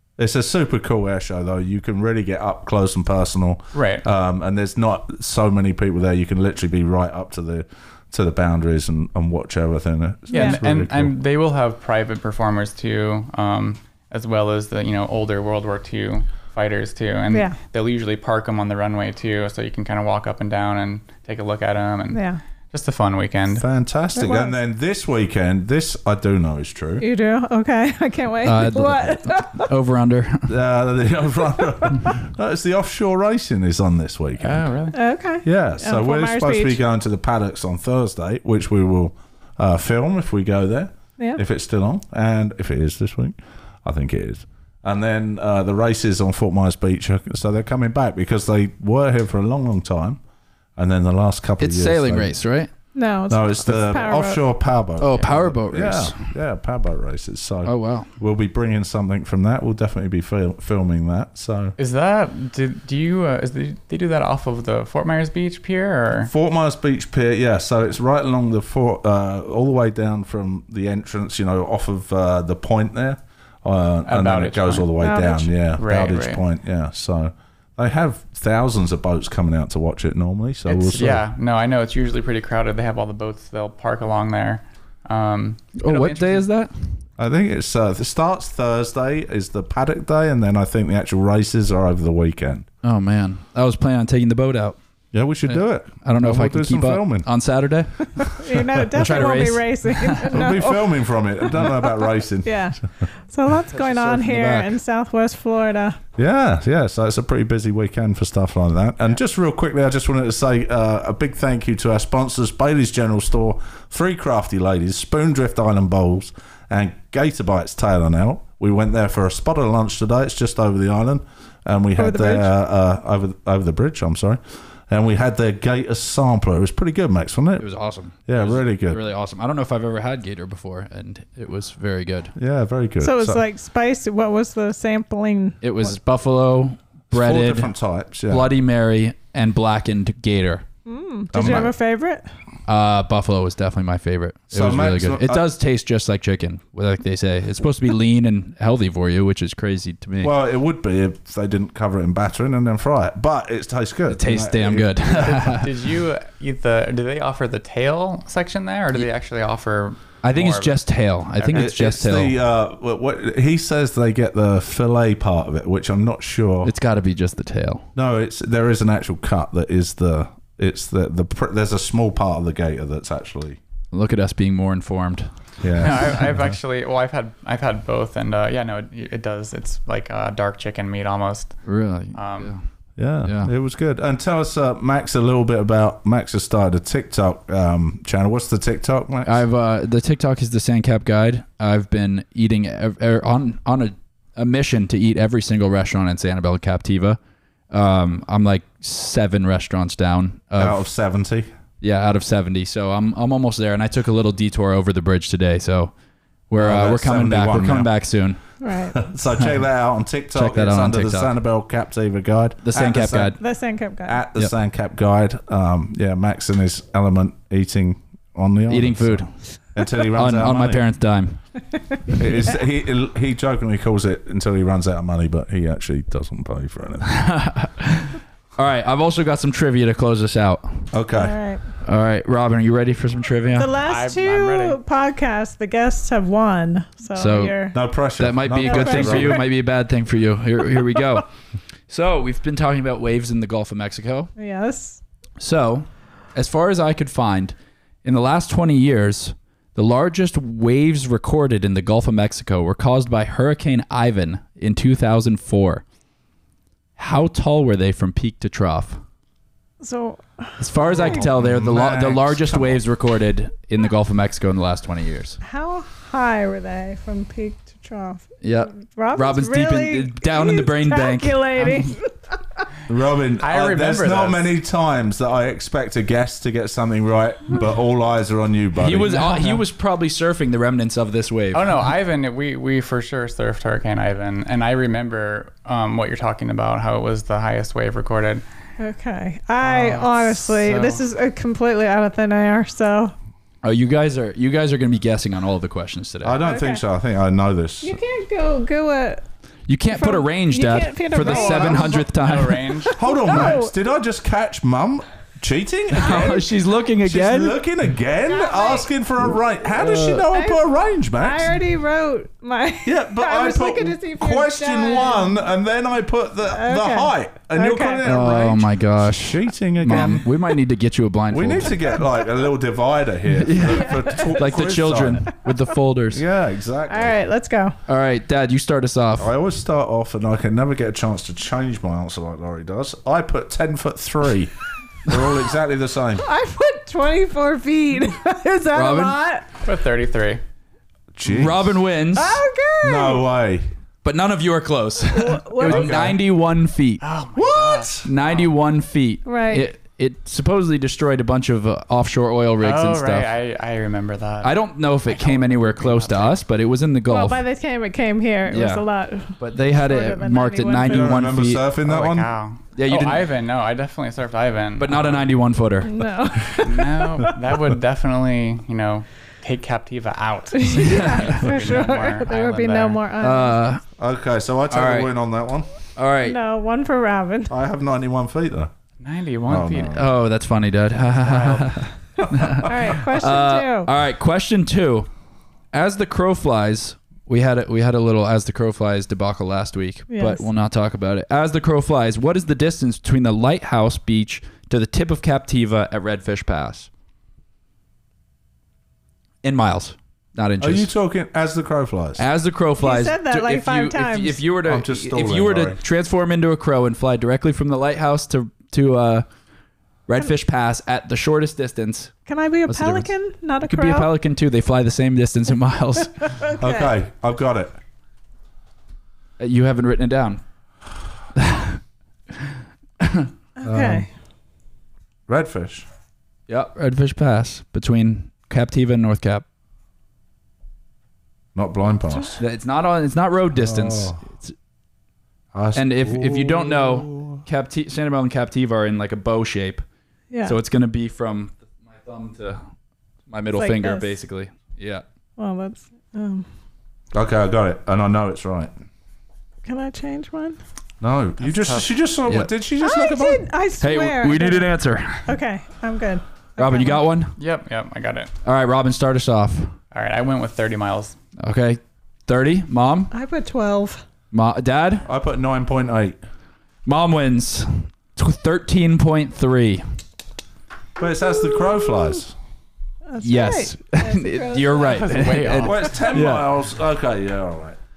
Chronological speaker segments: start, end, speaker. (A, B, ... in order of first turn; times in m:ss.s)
0:00.2-0:11.1 A
0:03.7-0:04.1 B
0:10.3-0:10.6 C
0:10.3-0:23.6 B
0:17.3-0:17.6 C
0:22.1-0:22.4 C
0:23.5-0:27.1 A
0:24.2-0:24.5 C
0:27.0-0:29.7 C
0:28.4-0:30.6 D
0:30.5-0:34.7 A
0:31.6-0:31.9 C
0:34.4-0:35.0 B
0:34.9-0:36.8 C
0:35.4-0:50.2 A
0:50.8-0:52.3 A
0:51.6-0:52.7 D
0:53.0-0:54.4 C
0:53.3-1:01.8 A
0:55.0-0:56.3 D
0:57.6-0:58.1 D
1:01.8-1:06.3 B
1:06.3-1:21.2 A
1:14.0-1:14.9 B
1:15.0-1:15.5 C
1:15.8-1:16.4 B
1:20.7-1:26.5 B
1:25.8-1:27.0 D
1:27.2-1:32.7 A
1:32.8-1:34.8 D
1:35.1-1:37.3 A
1:35.5-1:38.4 D
1:38.2-1:38.6 A
1:38.4-1:46.0 C
1:39.0-1:40.5 D
1:40.3-1:42.7 A
1:43.7-1:44.7 D
1:46.2-2:07.7 A
2:02.0-2:02.5 C
2:07.6-2:12.3 D
2:08.3-2:09.0 A
2:12.4-2:13.4 A
2:13.0-2:15.6 C
2:15.6-2:17.7 D
2:17.1-2:18.6 A
2:18.3-2:20.6 D
2:20.9-2:22.2 C
2:21.3-2:21.7 A
2:22.7-2:30.3 D
2:24.5-2:25.5 A
2:30.2-2:35.6 A
2:34.1-2:35.7 D
2:35.1-2:40.8 B
2:40.2-2:42.3 D
2:41.4-2:41.7 B
2:41.5-2:46.7 A
2:46.6-2:47.9 D
2:48.0-2:53.6 A
2:53.9-2:55.3 D
2:55.6-2:56.6 A
2:55.8-3:02.5 B
3:01.6-3:02.6 D
3:03.0-3:09.4 A
3:03.2-3:03.5 D
3:09.2-3:17.2 D
3:17.7-3:20.8 D
3:20.6-3:21.5 A
3:21.8-3:25.9 D
3:26.5-3:28.4 D
3:26.6-3:28.1 A
3:28.6-3:29.0 C
3:28.9-3:33.4 A
3:30.3-3:31.3 D
3:32.6-3:33.4 D
3:33.4-3:34.2 C
3:34.0-3:40.8 A
3:38.7-3:39.4 D
3:40.0-3:41.4 D
3:42.1-3:47.2 A
3:47.0-3:50.9 D
3:50.9-3:51.4 A
3:51.1-3:51.6 C
3:51.8-3:53.7 D
3:53.6-3:57.8 C
3:53.8-3:54.8 B
3:57.2-3:57.6 D
3:57.7-3:59.5 A
3:58.2-4:01.3 D
3:58.6-3:59.5 C
4:01.9-4:04.3 D
4:04.4-4:05.0 C
4:05.4-4:15.8 D
4:17.0-4:19.0 D
4:19.8-4:21.2 C
4:20.6-4:25.4 D
4:21.0-4:22.8 A
4:25.4-4:32.4 C
4:28.4-4:31.8 D
4:32.9-4:39.3 A
4:33.4-4:34.6 B
4:38.8-4:41.9 D
4:39.1-4:39.6 B
4:41.5-4:48.4 B
4:48.8-4:53.2 C
4:49.6-4:51.0 B
4:53.6-4:56.4 D
4:56.2-4:58.0 A
4:56.4-4:56.8 C
4:57.8-4:59.2 C
4:59.7-5:02.7 D
4:59.9-5:02.1 C
5:01.3-5:01.9 A
5:02.0-5:03.0 B
5:02.8-5:03.7 C
5:03.0-5:11.5 A
5:06.0-5:07.6 D
5:08.3-5:08.9 C
5:09.8-5:10.2 D
5:10.0-5:15.4 C
5:12.8-5:20.3 A
5:16.5-5:18.2 C
5:18.0-5:21.9 D
5:21.3-5:25.3 A
5:23.3-5:26.2 D
5:23.6-5:24.5 C
5:26.1-5:27.2 A
5:26.9-5:27.8 C
5:27.9-5:29.3 D
5:29.2-5:34.5 A
5:35.0-5:36.2 A
5:36.2-5:39.6 C
5:38.7-5:39.2 D
5:39.6-5:40.4 B
5:41.1-5:41.8 A
5:41.2-5:42.4 D
5:42.1-5:43.2 C
5:42.8-5:43.7 A
5:44.0-5:47.0 D
5:45.1-5:46.0 C
5:45.6-5:46.2 A
5:47.0-5:48.5 B
5:47.4-5:48.1 A
5:48.0-5:53.3 D
5:49.2-5:49.7 C
5:52.6-5:56.4 B
5:54.4-5:57.4 D
5:57.1-6:01.1 C
5:58.5-6:01.6 D
6:00.8-6:02.3 A
6:01.8-6:05.3 B
6:02.8-6:03.3 D
6:04.8-6:06.0 D
6:05.8-6:07.4 C
6:06.6-6:13.0 B
6:10.5-6:13.7 C
6:10.8-6:11.5 D
6:13.2-6:13.8 D
6:14.0-6:15.7 A
6:14.7-6:15.1 D
6:16.0-6:16.4 D
6:16.2-6:17.6 C
6:17.5-6:18.7 A
6:19.0-6:20.0 B
6:19.5-6:20.1 A
6:19.9-6:25.1 D
6:21.1-6:21.8 B
6:22.6-6:23.9 C
6:25.7-6:36.9 D
6:30.1-6:30.5 C
6:39.4-6:40.9 D
6:40.6-6:42.2 A
6:42.2-6:49.3 D
6:42.8-6:44.4 C
6:44.6-6:45.8 A
6:50.1-6:52.2 D
6:52.3-6:54.1 C
6:52.7-6:53.1 D
6:53.6-6:56.5 D
6:56.2-6:56.9 C
6:56.6-6:57.8 A
6:59.4-7:00.4 D
7:01.4-7:01.8 D
7:03.0-7:03.3 D
7:03.6-7:04.1 C
7:03.6-7:04.1 A
7:05.3-7:05.9 A
7:06.5-7:09.4 D
7:11.6-7:12.4 A
7:12.4-7:14.5 D
7:13.6-7:14.2 A
7:15.5-7:17.4 A
7:15.8-7:19.8 D
7:20.3-7:20.6 C
7:20.4-7:22.6 D
7:23.3-7:25.0 D
7:23.5-7:24.1 C
7:25.4-7:26.5 C
7:27.1-7:28.7 A
7:29.6-7:30.6 C
7:31.0-7:33.4 A
7:31.4-7:32.0 B
7:32.8-7:34.8 C
7:33.8-7:35.3 D
7:35.3-7:37.0 C
7:36.6-7:37.4 D
7:37.4-7:38.3 B
7:38.4-7:39.8 D
7:39.9-7:41.2 B
7:41.4-7:43.1 D
7:43.1-7:44.0 C
7:44.3-7:45.0 D
7:45.0-7:46.2 A
7:46.9-7:49.9 D
7:51.0-7:52.3 A
7:53.1-7:55.2 C
7:53.2-7:56.5 D
7:54.9-7:56.1 B
7:55.6-7:57.8 A